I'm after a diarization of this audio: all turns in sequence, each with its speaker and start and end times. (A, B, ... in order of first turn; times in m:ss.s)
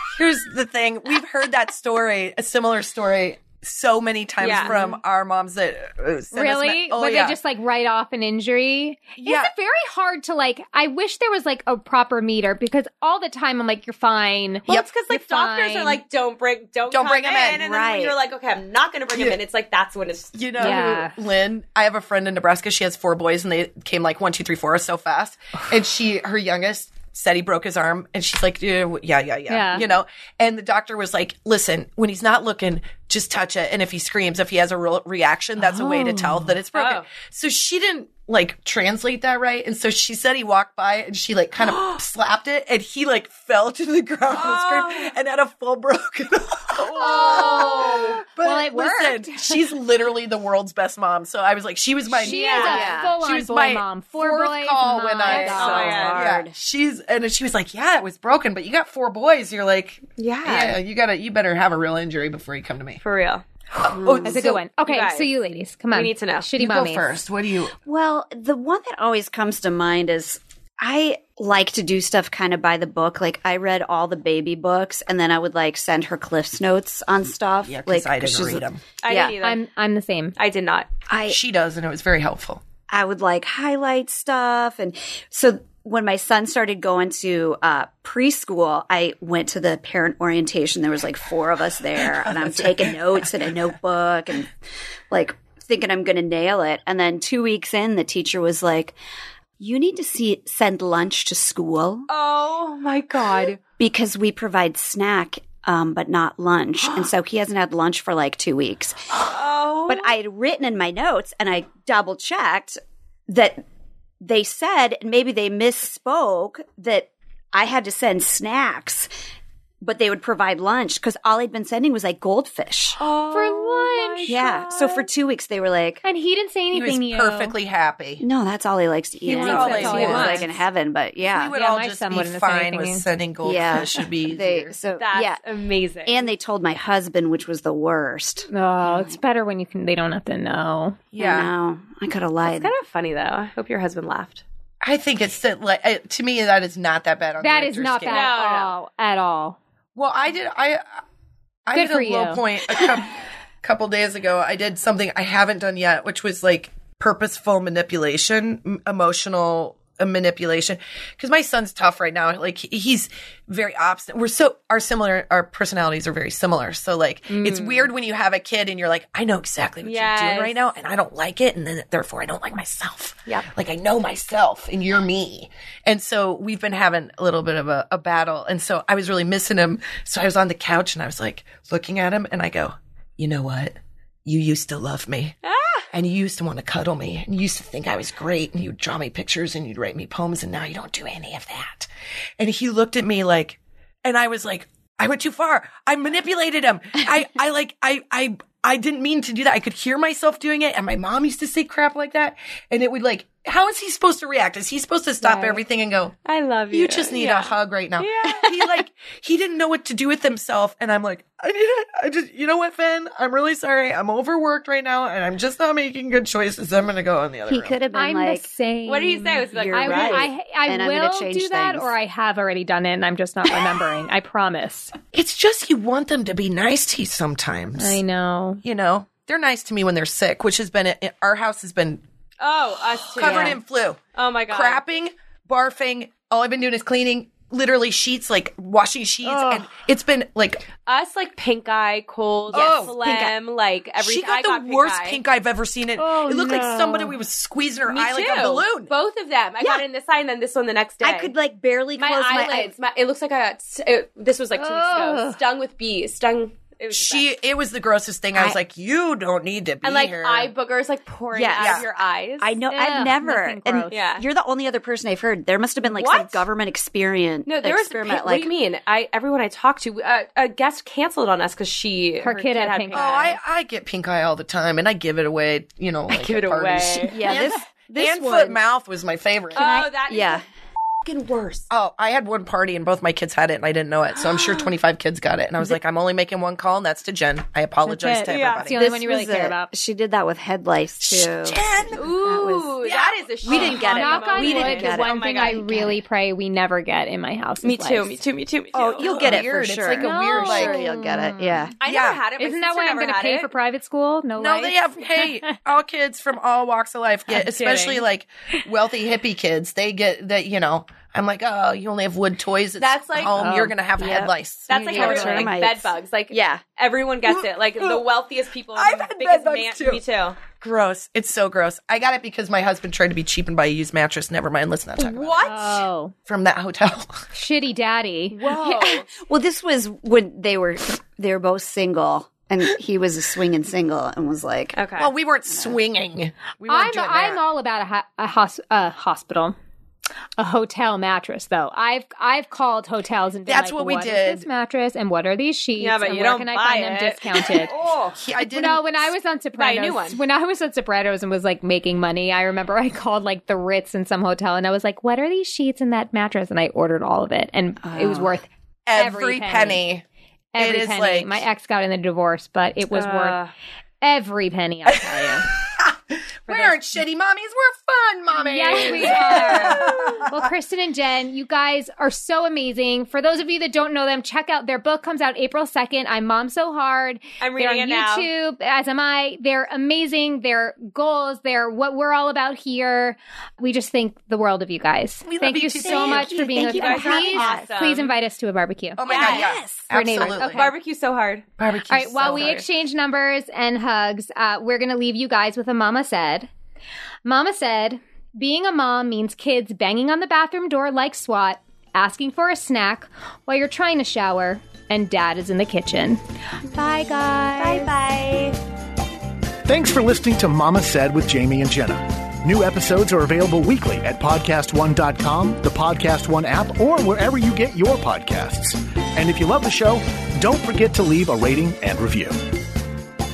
0:00.2-0:07.4 A
0:04.4-0:04.9 B
0:06.3-0:16.0 C
0:09.2-0:09.5 A
0:14.7-0:20.8 B
0:16.9-0:17.6 A
0:17.5-0:18.2 D
0:19.1-0:19.4 A
0:20.3-1:03.0 A
0:20.6-0:21.1 C
0:29.5-0:29.8 C
0:35.6-0:36.4 C
0:36.7-0:37.1 B
0:44.3-0:45.1 B
0:46.8-0:48.2 B
0:47.0-0:49.6 C
0:52.2-0:56.0 C
0:52.2-0:52.9 B
0:52.6-0:53.1 D
0:55.3-0:56.3 B
0:55.4-0:56.5 D
1:00.2-1:00.8 B
1:03.0-1:03.4 B
1:03.8-1:04.6 A
1:03.9-1:04.4 D
1:04.2-1:07.2 C
1:04.8-1:05.3 B
1:05.9-1:06.5 B
1:06.6-1:07.8 A
1:07.8-1:19.3 D
1:17.6-1:18.8 A
1:19.0-1:19.6 B
1:19.4-1:20.4 C
1:20.4-1:20.9 B
1:21.1-1:21.4 D
1:21.3-1:22.6 A
1:22.9-1:34.5 D
1:32.0-1:33.3 A
1:35.1-1:39.0 D
1:39.6-1:42.1 D
1:42.1-1:43.6 B
1:43.8-1:49.2 D
1:49.1-1:50.2 B
1:49.9-1:52.8 D
1:53.3-1:53.6 D
1:54.2-1:59.1 D
1:59.8-2:03.0 D
2:03.0-2:05.1 B
2:03.3-2:04.5 C
2:04.3-2:06.0 D
2:06.0-2:07.6 C
2:06.7-2:08.2 A
2:08.2-2:11.5 D
2:09.2-2:10.5 B
2:09.3-2:10.5 C
2:09.3-2:10.5 A
2:11.2-2:14.8 A
2:11.5-2:13.0 C
2:13.4-2:15.4 D
2:15.0-2:16.3 B
2:16.1-2:19.2 D
2:18.5-2:21.0 C
2:21.1-2:21.5 A
2:21.2-2:22.7 D
2:22.4-2:24.4 B
2:24.8-2:28.3 A
2:27.4-2:29.6 C
2:28.1-2:28.7 B
2:30.0-2:30.8 A
2:31.7-3:05.4 A
2:31.7-2:32.4 C
2:47.3-2:47.9 B
2:49.8-2:50.6 B
3:05.4-3:05.9 B
3:05.9-3:26.2 A
3:26.3-3:28.6 B
3:26.7-3:37.8 A
3:37.5-3:38.5 D
3:37.9-3:44.9 C
3:38.9-3:40.3 B
3:39.6-3:41.9 D
3:45.1-3:48.0 A
3:47.8-3:48.6 C
3:48.6-3:52.0 A
3:52.4-3:53.6 B
3:53.1-4:00.7 A
3:53.2-3:53.5 D
3:54.2-3:54.8 B
3:59.3-3:59.6 C
4:00.9-4:05.2 B
4:02.5-4:03.0 A
4:02.5-4:03.4 D
4:04.0-4:08.9 A
4:06.0-4:07.2 C
4:07.9-4:11.3 B
4:09.6-4:09.8 D
4:11.0-4:12.7 D
4:12.0-4:17.3 B
4:14.6-4:15.4 C
4:16.9-4:20.5 A
4:19.8-4:22.6 B
4:21.3-4:21.8 D
4:21.6-4:21.9 A
4:22.4-4:28.5 D
4:22.7-4:24.0 C
4:23.9-4:24.3 B
4:25.8-4:26.5 B
4:27.5-4:33.4 B
4:32.2-4:33.3 C
4:32.9-4:39.6 A
4:36.1-4:37.4 B
4:37.1-4:38.6 D
4:39.5-4:40.4 B
4:39.5-4:40.4 D
4:41.1-4:41.6 D
4:41.1-4:41.6 B
4:41.7-4:48.9 A
4:47.8-4:49.7 C
4:48.3-4:48.7 B
4:48.7-4:56.0 D
4:51.0-4:52.1 A
4:51.9-4:55.6 B
4:53.5-4:53.8 A
4:53.9-4:58.2 C
4:57.6-4:59.4 B
4:58.7-5:01.7 D
4:58.8-5:00.8 A
5:00.0-5:01.7 C
5:01.8-5:03.5 B
5:01.8-5:02.2 A
5:02.4-5:05.6 C
5:04.4-5:15.6 A
5:07.3-5:08.0 B
5:12.8-5:13.5 B
5:13.4-5:13.6 C
5:13.5-5:16.6 D
5:14.7-5:20.4 B
5:14.8-5:15.5 C
5:17.3-5:18.0 A
5:18.7-5:20.0 A
5:20.5-5:25.4 A
5:25.0-5:25.8 B
5:25.4-5:26.1 C
5:26.3-5:27.2 A
5:27.3-5:28.5 C
5:28.3-5:29.1 B
5:28.8-5:34.8 D
5:34.7-5:35.1 B
5:35.0-5:37.4 A
5:35.5-5:35.8 D
5:36.7-5:39.6 C
5:40.4-5:47.7 C
5:43.5-5:44.5 A
5:45.8-5:48.2 B
5:48.1-5:49.1 A
5:48.4-5:59.8 C
5:49.6-5:50.2 B
5:57.8-5:58.3 D
5:58.9-6:00.0 A
6:00.5-6:03.4 C
6:00.6-6:01.4 A
6:02.9-6:03.5 B
6:04.0-6:05.5 C
6:05.0-6:10.5 A
6:06.5-6:06.7 B
6:08.5-6:29.0 C
6:08.7-6:10.2 B
6:17.4-6:18.3 B
6:25.2-6:26.4 A
6:25.8-6:27.7 D
6:26.4-6:28.1 B
6:29.0-6:30.7 A
6:29.0-6:29.6 B
6:29.1-6:29.9 D
6:29.9-6:30.7 C
6:30.2-6:31.5 B
6:31.6-6:32.6 A
6:31.9-6:36.5 C
6:32.2-6:32.6 B
6:37.2-6:47.9 C
6:47.6-6:48.6 B
6:49.7-7:02.4 E